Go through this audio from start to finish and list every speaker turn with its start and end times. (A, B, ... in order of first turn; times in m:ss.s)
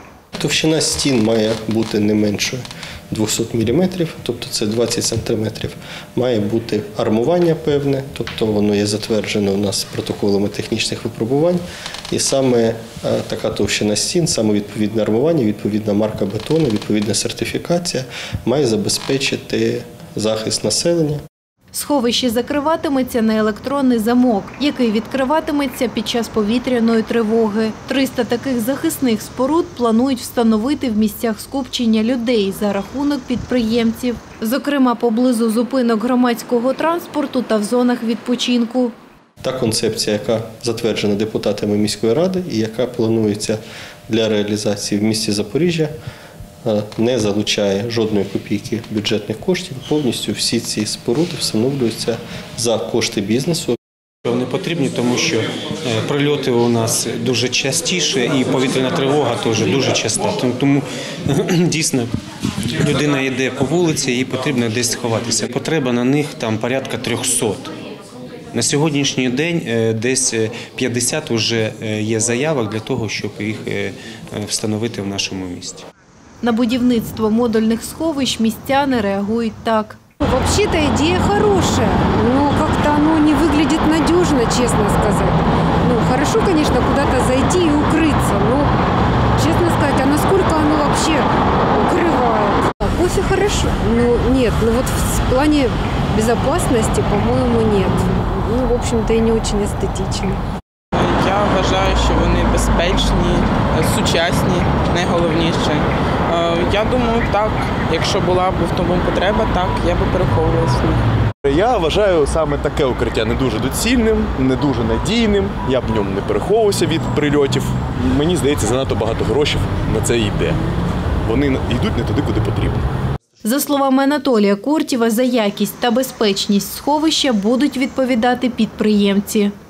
0:00.4-0:21.2 A
0:21.7-0:38.9 B
0:39.4-0:45.9 A
0:46.6-0:53.8 A
0:54.2-1:02.1 C
1:02.8-1:07.7 C
1:08.5-1:15.8 C
1:16.4-1:20.0 B
1:20.2-1:28.8 D
1:29.4-1:40.4 D
1:40.9-1:51.0 E
1:51.4-2:00.6 F
2:01.2-2:02.9 F
2:03.4-2:09.5 B